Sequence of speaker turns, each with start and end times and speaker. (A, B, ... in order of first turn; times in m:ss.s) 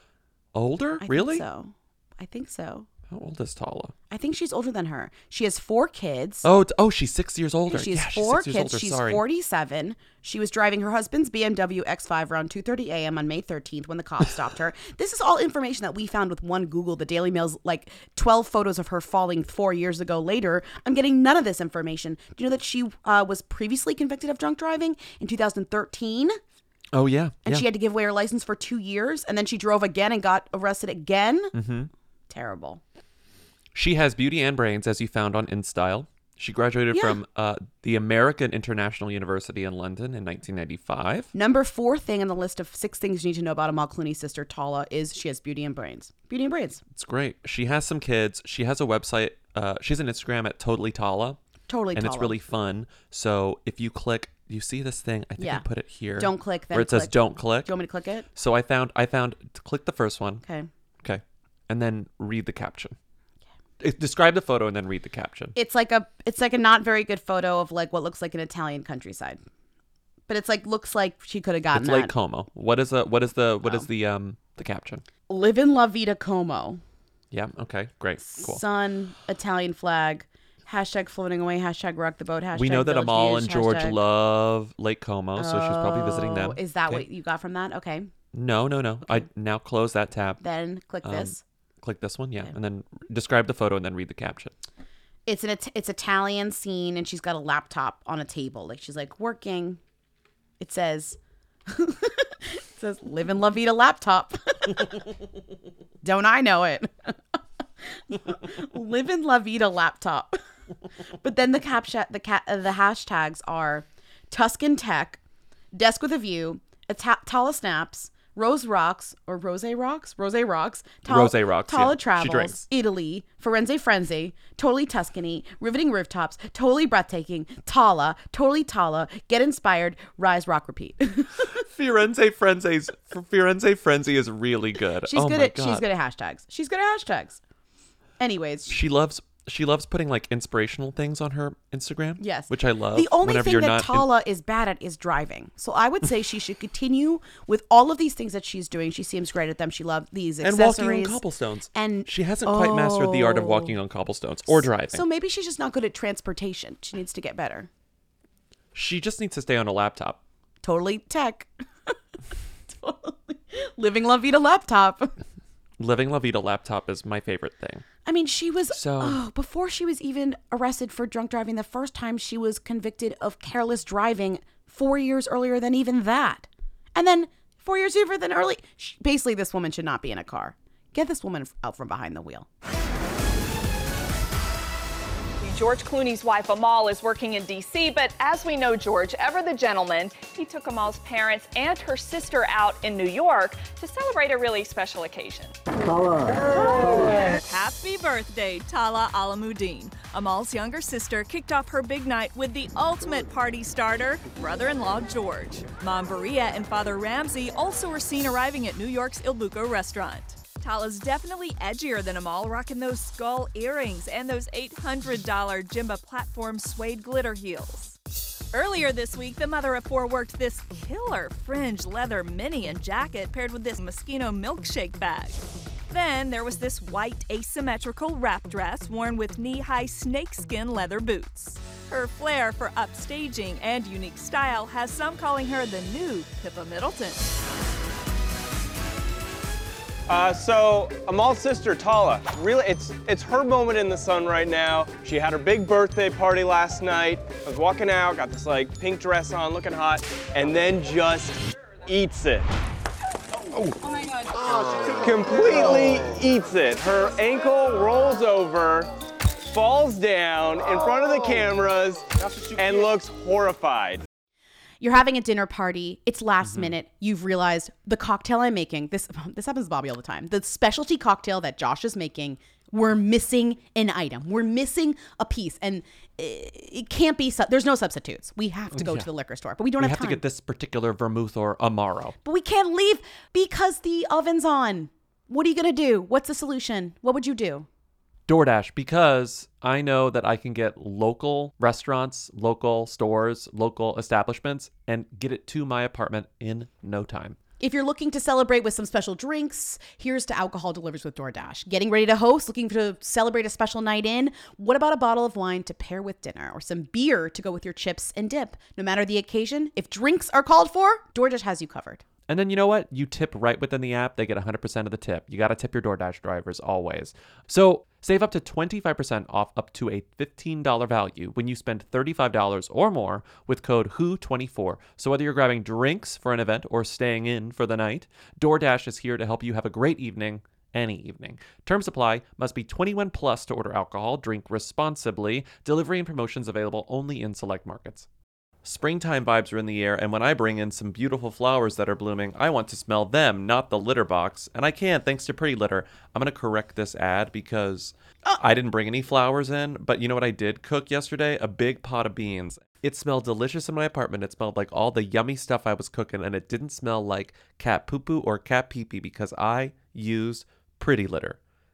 0:00.5-0:01.4 A
0:01.0-0:02.9 B
0:03.1-0:03.9 A
0:04.1-0:06.5 B
0:06.4-0:09.2 A
0:07.7-0:26.4 B
0:26.9-0:27.7 A
0:27.4-0:31.5 B
0:31.5-0:31.9 A
0:32.3-0:32.8 B
0:33.7-0:41.3 A
0:36.9-0:37.2 B
0:41.3-0:46.8 B
0:46.9-0:51.4 A
0:51.7-0:52.4 B
0:51.9-0:57.7 A
0:55.4-0:55.6 B
0:56.2-0:58.3 B
0:58.4-1:00.4 A
1:00.4-1:00.7 B
1:01.0-1:03.0 A
1:03.8-1:05.6 A
1:05.6-1:09.4 B
1:10.3-1:12.1 B
1:11.7-1:15.0 A
1:15.3-1:16.8 B
1:17.3-1:18.6 A
1:18.2-1:24.0 B
1:22.6-1:27.0 A
1:25.4-1:28.1 B
1:28.3-1:30.4 A
1:30.4-1:31.4 B
1:31.0-1:34.5 A
1:35.3-1:39.8 B
1:40.6-1:45.0 B
1:46.0-1:47.1 B
1:48.0-1:50.4 B
1:51.2-1:55.2 B
1:55.7-2:11.6 B
2:01.1-2:02.6 A
2:11.5-2:15.8 A
2:15.1-2:17.4 B
2:18.2-2:18.7 B
2:18.7-2:24.1 A
2:22.2-2:31.2 B
2:30.4-2:35.0 A
2:31.7-2:33.8 B
2:34.5-2:37.7 B
2:38.7-2:40.2 A
2:40.6-2:41.9 B
2:42.7-2:45.2 B
2:45.8-2:47.8 A
2:48.0-3:02.5 B
2:48.7-2:49.2 A
3:05.4-3:15.4 C
3:10.4-3:10.8 D
3:17.0-3:38.0 D
3:38.5-3:45.4 D
3:45.9-3:57.4 D
4:00.1-4:12.5 E
4:15.0-4:18.9 E
4:19.5-4:24.0 E
4:24.8-4:40.2 B
4:26.4-4:26.8 A
4:38.7-4:39.1 A
4:39.8-4:42.2 A
4:42.2-4:47.7 B
4:48.3-4:57.4 A
4:57.6-5:12.0 B
5:12.3-5:38.1 A
5:38.6-6:01.4 A